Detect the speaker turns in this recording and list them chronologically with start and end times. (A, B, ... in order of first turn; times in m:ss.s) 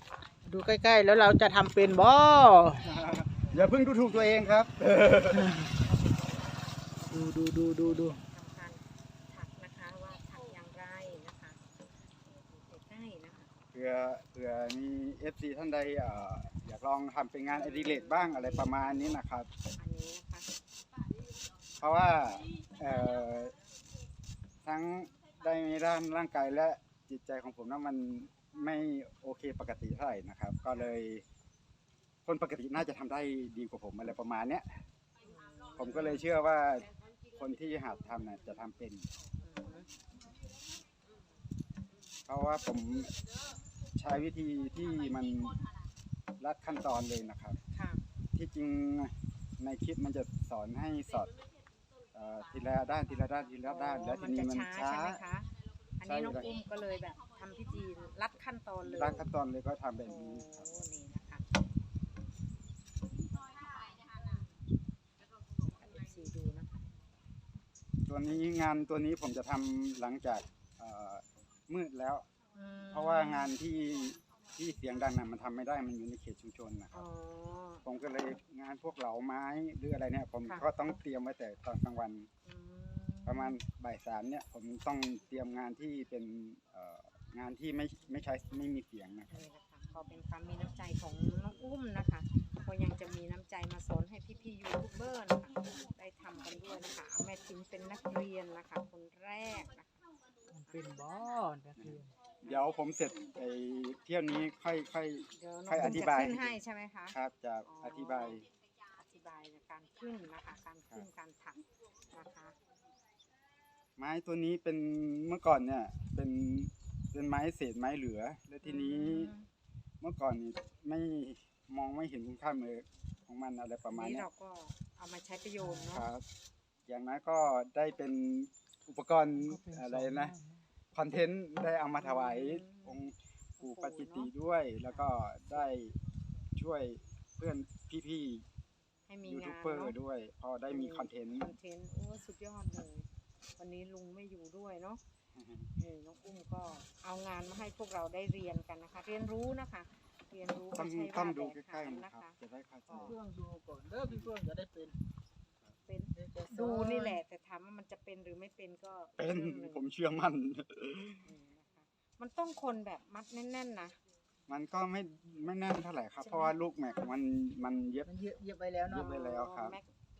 0:00.4-0:02.8 A
0:02.8-0:05.4 B
0:05.3-0:05.7 A
0:07.1-0:08.2 A
0:07.8-0:11.6 C
0:12.3-0:13.5 C
0:13.7-0:19.5 B
0:17.5-0:19.2 C
0:19.8-0:20.5 C
0:21.8-0:23.6 B
0:24.6-0:31.2 B
0:30.7-0:30.9 C
0:32.2-0:34.7 B
0:35.2-0:36.3 C
0:35.7-0:39.1 B
0:39.4-0:39.9 C
0:42.3-0:43.1 B
0:43.9-0:45.6 B
0:46.4-0:47.6 B
0:47.7-0:48.0 C
0:48.3-0:51.3 B
0:52.1-0:55.2 B
0:53.6-0:59.3 C
0:56.0-0:56.5 B
0:58.8-1:00.7 B
1:00.0-1:01.4 C
1:05.7-1:06.7 C
1:08.1-1:12.2 B
1:12.5-1:13.6 C
1:12.9-1:17.0 B
1:16.9-1:17.8 C
1:17.8-1:22.3 B
1:22.4-1:23.6 C
1:23.2-1:29.3 B
1:29.3-1:40.0 C
1:40.5-1:42.1 A
1:41.8-1:46.5 B
1:45.4-1:52.5 C
1:45.8-1:46.1 A
1:47.1-1:48.5 B
1:54.0-1:59.3 B
1:58.6-1:59.5 C
2:00.0-2:04.3 B
2:03.9-2:06.1 C
2:05.6-2:05.9 A
2:05.9-2:06.2 B
2:06.9-2:10.3 B
2:09.4-2:10.6 A
2:10.9-2:16.0 B
2:12.0-2:14.3 C
2:16.6-2:18.4 B
2:19.1-2:20.0 C
2:19.2-2:21.5 B
2:20.7-2:25.0 C
2:25.3-2:25.7 B
2:25.8-2:32.4 C
2:30.7-2:33.2 B
2:32.9-2:35.0 A
2:35.8-2:39.8 C
2:36.1-2:37.2 A
2:39.2-2:41.2 B
2:41.2-2:44.0 C
2:44.5-2:48.1 B
2:46.2-2:46.6 C
2:48.0-2:49.1 A
2:48.9-2:49.8 B
2:48.9-2:49.9 C